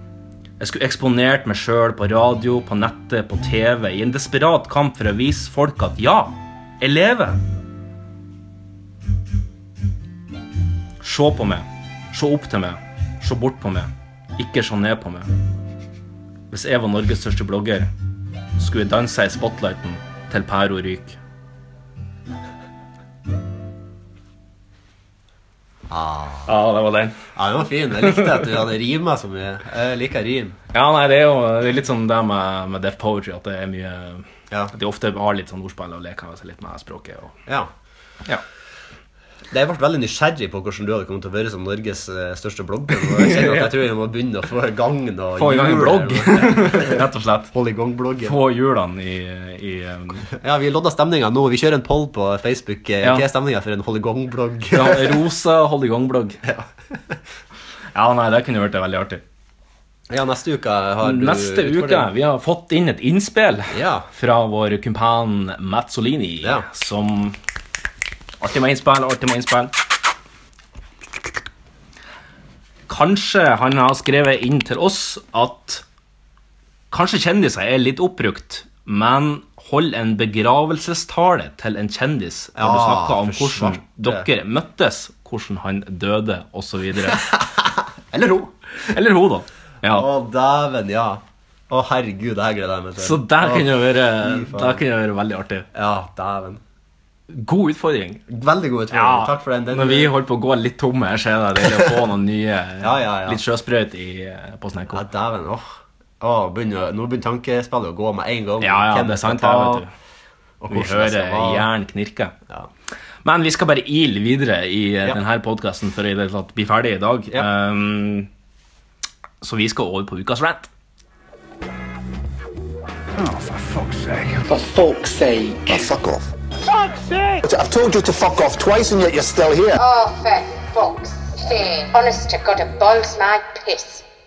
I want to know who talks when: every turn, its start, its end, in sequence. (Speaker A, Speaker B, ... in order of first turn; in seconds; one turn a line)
Speaker A: 0.6-7.4
Speaker A: 11.0-15.3
Speaker A: 16.5-17.9
Speaker A: 18.6-21.2
Speaker B: 25.9-26.5
Speaker A: 26.4-27.2
Speaker B: 27.3-30.6
Speaker A: 28.0-28.5
Speaker A: 30.7-37.4
Speaker B: 39.5-48.4
Speaker A: 43.0-43.7
Speaker A: 45.4-47.5
Speaker A: 48.2-50.3
Speaker B: 50.3-55.2
Speaker A: 54.7-56.4
Speaker B: 56.4-57.1
Speaker A: 57.9-59.2
Speaker B: 60.1-62.1
Speaker A: 61.0-67.4
Speaker B: 63.7-64.1
Speaker A: 68.4-69.7
Speaker A: 72.9-75.8
Speaker A: 76.9-87.2
Speaker B: 82.5-84.3
Speaker B: 87.1-88.5
Speaker A: 88.9-90.1
Speaker B: 89.8-94.8
Speaker A: 93.0-95.7
Speaker B: 95.7-96.6
Speaker A: 97.3-98.2
Speaker B: 98.3-100.1
Speaker A: 98.9-105.0
Speaker B: 102.8-103.4
Speaker B: 104.9-109.8
Speaker A: 108.6-109.9
Speaker B: 110.6-111.7
Speaker A: 110.7-112.3
Speaker A: 113.2-118.3
Speaker A: 119.4-120.7
Speaker C: 123.2-125.9
Speaker C: 126.7-129.5
Speaker D: 129.7-134.0